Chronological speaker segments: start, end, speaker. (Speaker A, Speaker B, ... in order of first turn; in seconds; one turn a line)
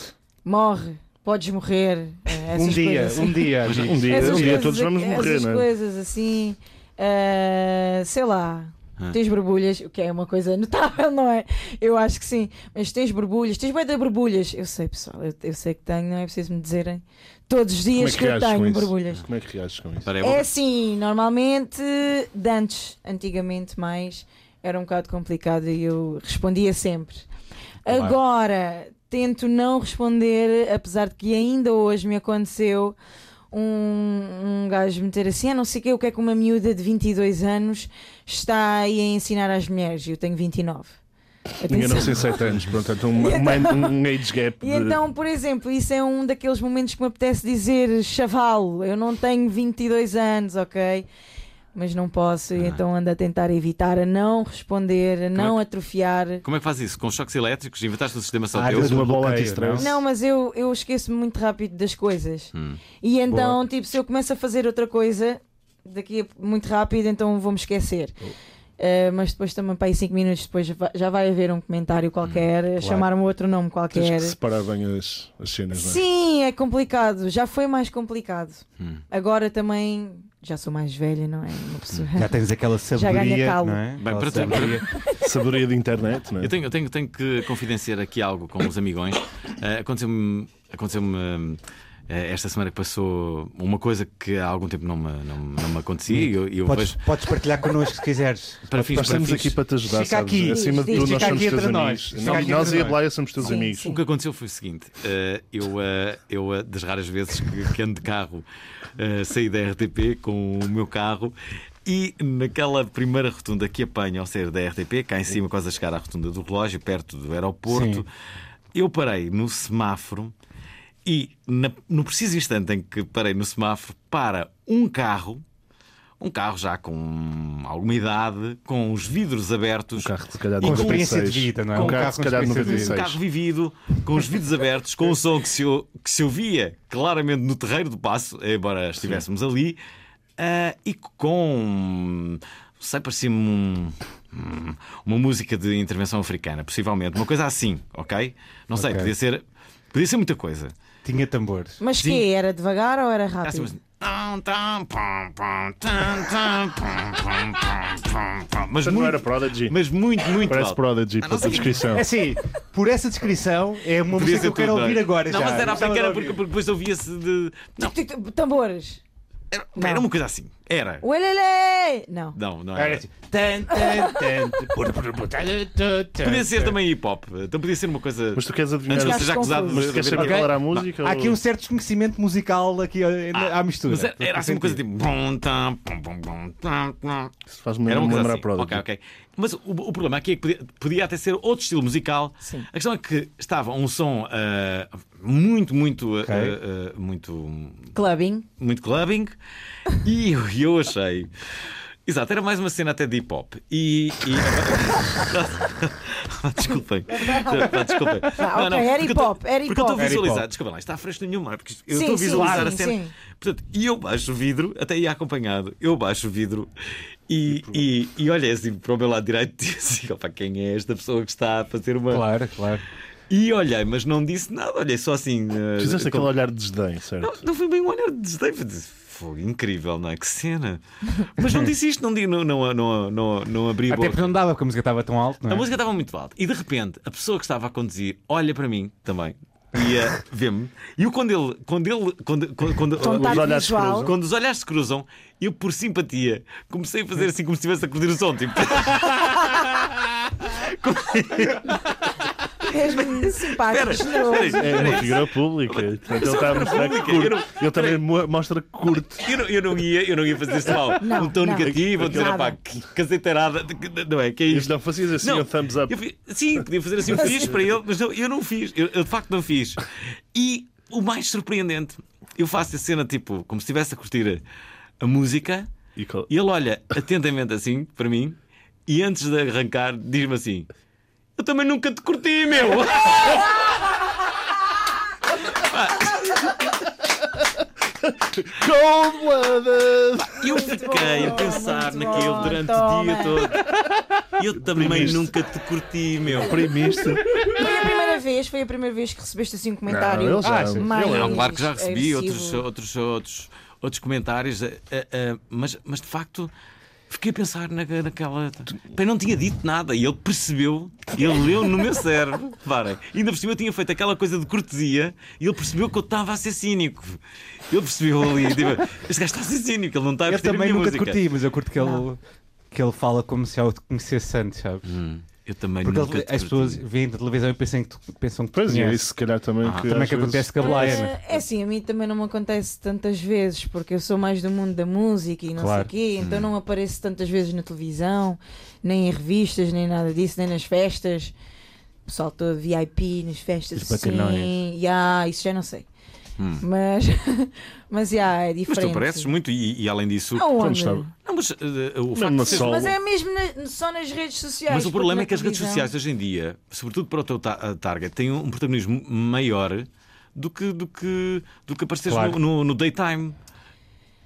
Speaker A: 0.5-19.2
Speaker B: 2.5-4.8
Speaker C: 3.7-4.2
Speaker D: 3.8-5.7
Speaker D: 18.0-20.1
Speaker C: 20.1-20.5
Speaker A: 20.2-27.3
Speaker A: 27.9-33.0
Speaker A: 33.5-41.0
Speaker A: 41.6-42.4
Speaker D: 41.7-45.0
Speaker A: 43.2-44.0
Speaker A: 44.6-51.1
Speaker A: 51.8-56.4
Speaker C: 56.4-59.1
Speaker B: 58.5-59.9
Speaker D: 58.7-60.0
Speaker A: 59.8-62.5
Speaker C: 62.5-62.8
Speaker A: 63.0-68.2
Speaker B: 63.3-63.6
Speaker A: 68.8-74.4
Speaker C: 72.2-72.5
Speaker D: 73.9-76.0
Speaker A: 75.7-82.4
Speaker B: 82.2-84.9
Speaker A: 82.9-83.8
Speaker C: 84.0-84.8
Speaker A: 84.3-85.3
Speaker D: 85.2-86.6
Speaker C: 86.4-97.0
Speaker B: 96.1-103.1
Speaker C: 98.7-99.6
Speaker D: 98.9-104.0
Speaker A: 100.5-101.5
Speaker A: 103.4-104.0
Speaker C: 103.8-118.1
Speaker B: 117.7-118.0
Speaker C: 118.7-120.3
Speaker C: 121.0-125.4
Speaker C: 126.2-131.1
Speaker D: 130.0-133.2
Speaker B: 130.6-133.0
Speaker C: 131.7-139.8
Speaker C: 140.4-150.7
Speaker B: 148.8-149.1
Speaker B: 151.0-151.8
Speaker A: 151.8-153.7
Speaker C: 152.0-152.3
Speaker C: 153.4-161.9
Speaker D: 158.8-159.8
Speaker D: 160.4-162.1
Speaker B: 161.9-166.4
Speaker C: 164.1-167.9
Speaker A: 167.8-169.0
Speaker C: 169.5-171.0
Speaker A: 169.8-170.1
Speaker A: 171.0-172.4
Speaker C: 172.3-173.0
Speaker B: 172.8-176.8
Speaker A: 173.7-174.3
Speaker C: 176.2-180.8
Speaker D: 178.3-181.4
Speaker A: 179.0-180.1
Speaker B: 180.2-184.8
Speaker C: 183.3-187.3
Speaker D: 187.5-188.8
Speaker C: 187.9-197.9
Speaker A: 192.4-192.7
Speaker B: 196.2-196.6
Speaker A: 197.9-198.5
Speaker C: 198.6-199.3
Speaker C: 199.9-201.3
Speaker C: 202.1-216.7
Speaker A: 206.7-210.2
Speaker B: 210.0-210.5
Speaker A: 211.9-213.1
Speaker B: 212.3-212.8
Speaker C: 217.3-222.2
Speaker D: 217.5-217.8
Speaker B: 222.1-222.8
Speaker C: 223.3-226.3
Speaker D: 225.8-227.4
Speaker C: 227.2-234.4
Speaker B: 233.9-235.7
Speaker C: 235.5-258.0
Speaker D: 243.0-244.2
Speaker A: 243.0-244.1
Speaker A: 252.7-255.0
Speaker D: 254.6-259.3
Speaker C: 259.2-274.4
Speaker A: 261.0-262.6
Speaker D: 261.8-262.3
Speaker D: 264.5-266.0
Speaker A: 267.1-267.5
Speaker C: 275.0-275.7
Speaker D: 276.0-276.3
Speaker C: 276.3-280.7
Speaker C: 281.4-283.9
Speaker C: 285.5-286.6
Speaker D: 288.1-290.4
Speaker C: 290.2-293.7
Speaker A: 290.4-293.5
Speaker C: 294.4-296.7
Speaker D: 294.6-295.4
Speaker D: 296.3-297.4
Speaker A: 297.5-302.6
Speaker D: 299.9-301.4
Speaker B: 300.4-301.4
Speaker C: 301.1-306.5
Speaker C: 307.1-321.2
Speaker B: 320.3-322.2
Speaker A: 321.8-322.1
Speaker B: 322.7-324.8
Speaker C: 324.9-326.8
Speaker B: 325.8-329.0
Speaker D: 328.5-331.0
Speaker C: 329.6-329.9
Speaker B: 329.8-331.1
Speaker A: 330.6-341.3
Speaker B: 335.6-335.9
Speaker C: 336.2-336.5
Speaker A: 342.1-345.9
Speaker B: 343.8-344.5
Speaker C: 346.4-346.6
Speaker A: 346.6-349.3
Speaker C: 348.7-350.6
Speaker A: 350.4-351.1
Speaker D: 350.6-351.1
Speaker C: 351.2-352.9
Speaker D: 352.1-352.9
Speaker A: 352.5-355.9
Speaker C: 354.7-363.4
Speaker B: 362.1-362.4